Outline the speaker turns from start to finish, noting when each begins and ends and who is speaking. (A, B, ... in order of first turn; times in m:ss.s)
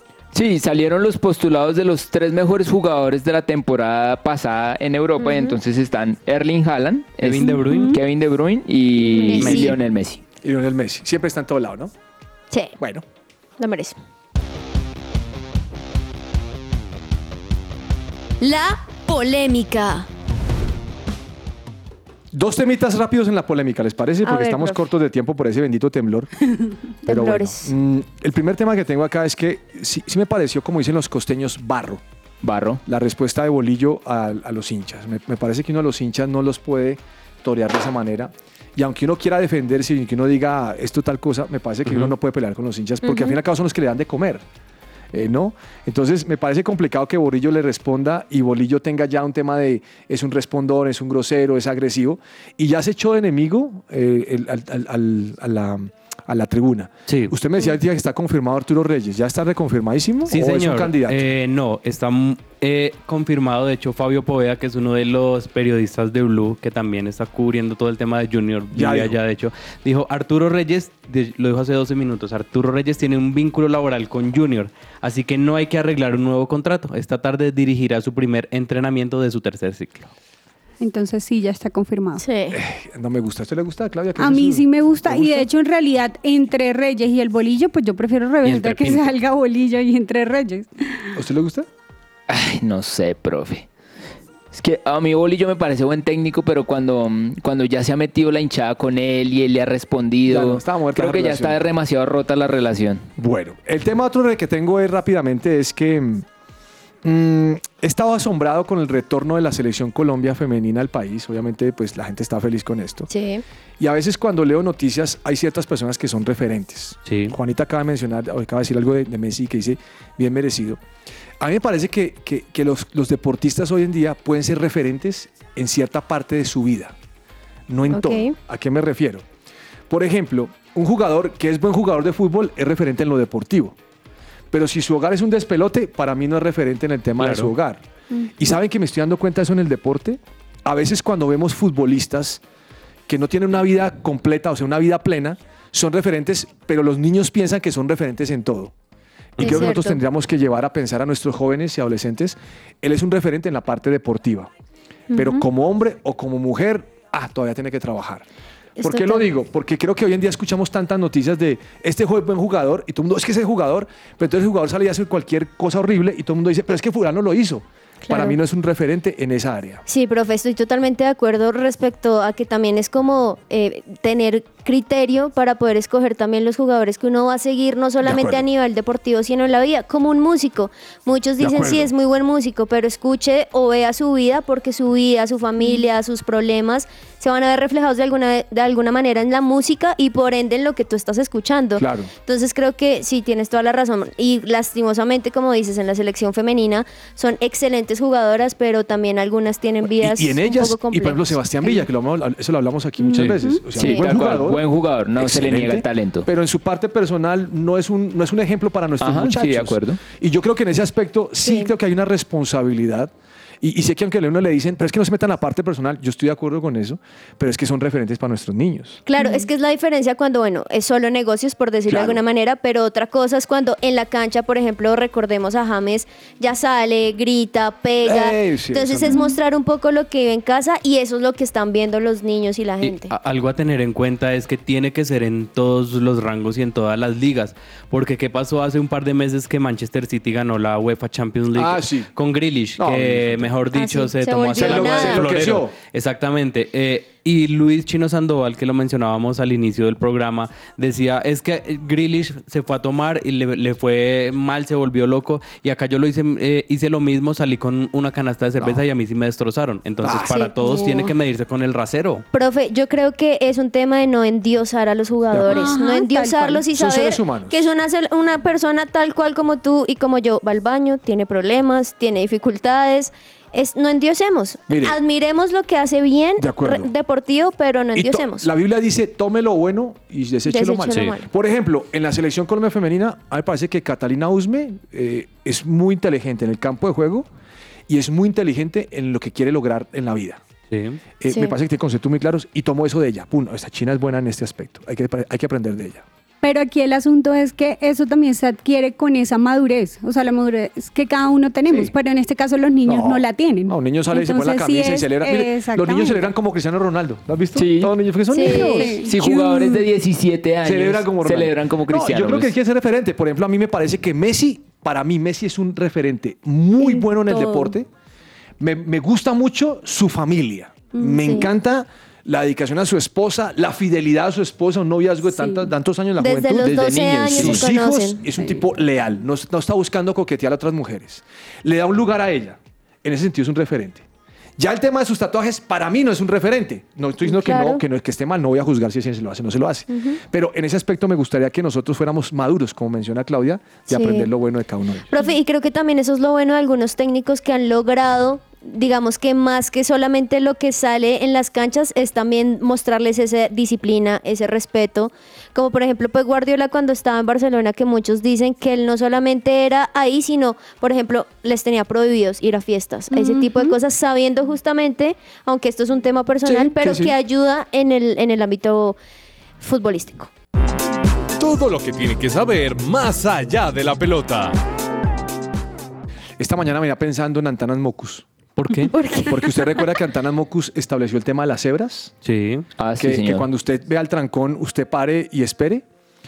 0:00.3-0:10.2 A
0:05.2-0:05.6 B
0:07.2-0:08.0 C
0:07.4-0:08.0 D
0:09.1-0:09.8 B
0:09.4-0:09.7 C
0:10.4-0:11.9 E
0:12.8-0:13.0 E
0:13.6-0:14.0 B
0:18.4-0:20.1 B
0:22.3-0:26.3 E
0:24.2-0:24.8 B
0:27.1-0:27.7 B
0:27.1-0:32.0 E
0:32.4-0:32.8 A
0:32.9-0:44.4 E
0:43.0-0:43.4 B
0:45.1-1:01.3 E
0:57.1-0:57.3 C
1:00.3-1:20.1 C
1:08.7-1:09.2 E
1:20.8-1:22.2 D
1:22.2-1:22.6 B
1:22.5-1:25.5 E
1:24.2-1:30.7 D
1:28.4-1:29.1 C
1:31.1-1:31.7 E
1:32.3-1:33.7 A
1:34.5-1:43.1 A
1:40.2-1:41.6 E
1:43.2-1:46.3 E
1:47.0-1:53.1 E
1:53.1-1:53.4 B
1:53.8-2:00.8 E
1:57.1-1:57.4 C
2:01.4-2:07.0 E
2:07.7-2:09.2 E
2:07.9-2:08.4 B
2:09.9-2:13.8 E
2:14.5-2:17.8 E
2:17.2-2:17.5 C
2:18.4-2:22.4 E
2:23.1-2:28.7 E
2:29.4-2:29.6 C
2:29.4-2:34.5 E
2:29.4-2:30.0 B
2:35.1-2:35.4 B
2:35.1-2:38.3 E
2:38.8-2:39.3 B
2:38.8-2:49.8 E
2:48.0-2:48.4 B
2:49.9-3:21.8 B
2:58.0-2:58.4 E
3:01.4-3:01.9 E
3:11.8-3:12.1 E
3:19.8-3:39.0 E
3:23.2-3:23.6 D
3:23.8-3:26.3 A
3:23.8-3:24.0 B
3:29.0-3:30.0 A
3:31.4-3:31.7 B
3:39.1-3:53.1 B
3:39.2-3:39.4 D
3:41.9-3:42.2 E
3:48.0-3:49.2 E
3:49.1-3:49.4 D
3:52.8-4:22.2 C
4:01.5-4:02.1 E
4:02.8-4:03.5 E
4:03.7-4:05.3 B
4:04.6-4:05.8 E
4:20.0-4:20.5 E
4:20.6-4:21.0 D
4:22.3-4:38.5 B
4:25.3-4:25.8 E
4:25.4-4:26.7 D
4:26.7-4:27.6 E
4:34.7-4:35.0 E
4:36.4-4:36.9 E
4:38.0-4:47.3 E
4:40.5-4:41.3 B
4:47.9-4:50.4 E
4:50.7-4:51.0 C
4:51.2-4:56.0 E
4:51.3-4:51.6 B
4:56.4-5:06.3 D
5:01.7-5:01.9 E
5:02.8-5:09.0 E
5:07.6-5:08.0 A
5:08.3-5:09.0 B
5:08.4-5:09.9 D
5:09.0-5:12.5 A
5:10.6-5:17.9 E
5:18.6-5:34.0 E
5:21.0-5:21.3 D
5:21.2-5:21.5 B
5:25.3-5:25.7 D
5:26.2-5:28.2 B
5:26.6-5:27.6 A
5:28.4-5:28.6 D
5:34.6-5:45.1 E
5:37.2-5:37.8 B
5:39.9-5:40.2 B
5:43.9-5:44.3 B
5:45.1-6:09.0 B
6:03.1-6:03.8 D
6:06.4-6:07.2 E
6:09.6-6:10.3 B
6:11.4-6:14.6 F
6:16.4-6:18.3 E
6:18.6-6:18.9 C
6:18.9-6:19.5 B
6:19.3-6:22.1 E
6:22.2-6:22.7 C
6:22.8-6:23.5 A
6:23.0-6:25.8 E